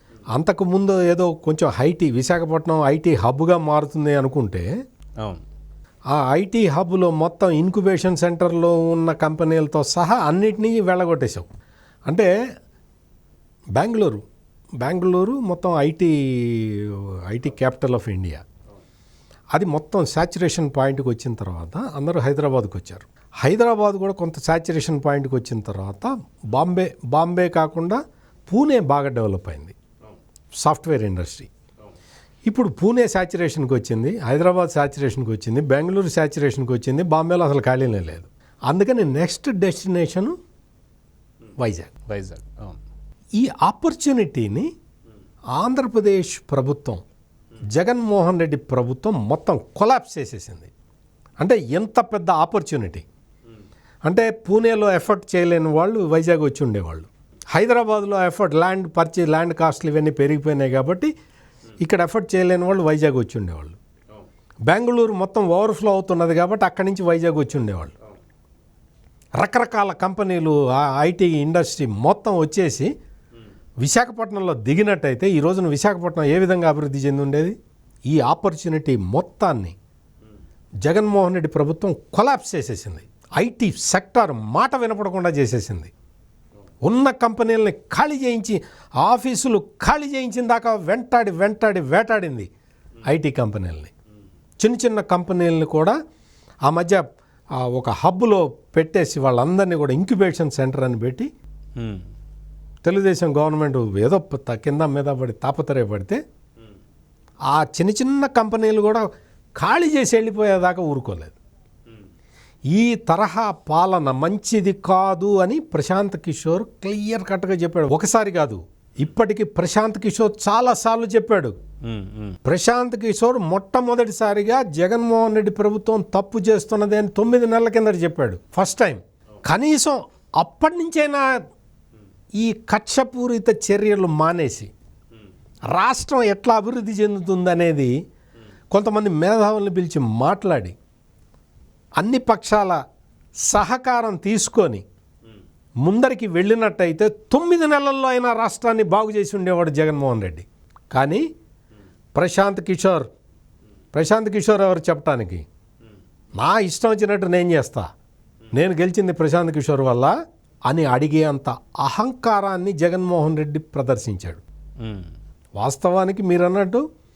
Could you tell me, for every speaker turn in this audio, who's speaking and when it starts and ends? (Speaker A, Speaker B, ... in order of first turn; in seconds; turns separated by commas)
Speaker A: 0.3-4.7, Speaker A: 6.1-11.5, Speaker A: 13.8-14.3, Speaker A: 14.8-18.4, Speaker A: 19.5-29.8, Speaker A: 30.6-31.5, Speaker A: 32.5-40.4, Speaker A: 41.6-41.9, Speaker B: 42.1-42.8, Speaker A: 43.4-44.7, Speaker A: 45.6-47.0, Speaker A: 47.7-50.7, Speaker A: 51.4-53.0, Speaker A: 54.1-61.1, Speaker A: 61.8-63.8, Speaker A: 64.7-68.0, Speaker A: 69.4-72.9, Speaker A: 73.8-77.6, Speaker A: 78.1-79.8, Speaker A: 80.8-85.9, Speaker A: 86.9-92.5, Speaker A: 93.1-93.9, Speaker A: 94.6-96.0, Speaker A: 96.7-97.0, Speaker A: 97.6-101.3, Speaker B: 101.8-102.1, Speaker A: 102.8-106.2, Speaker A: 107.5-109.0, Speaker A: 109.6-111.4, Speaker A: 112.7-121.5, Speaker B: 121.9-122.4, Speaker A: 122.5-131.4, Speaker A: 132.4-134.7, Speaker A: 135.7-137.9, Speaker A: 138.7-140.8, Speaker A: 142.0-142.8, Speaker A: 143.5-144.8, Speaker A: 145.8-151.2, Speaker A: 152.2-153.1, Speaker A: 153.9-155.4, Speaker A: 156.4-157.9, Speaker A: 158.5-160.1, Speaker A: 160.7-164.4, Speaker B: 164.8-165.1, Speaker A: 165.6-166.8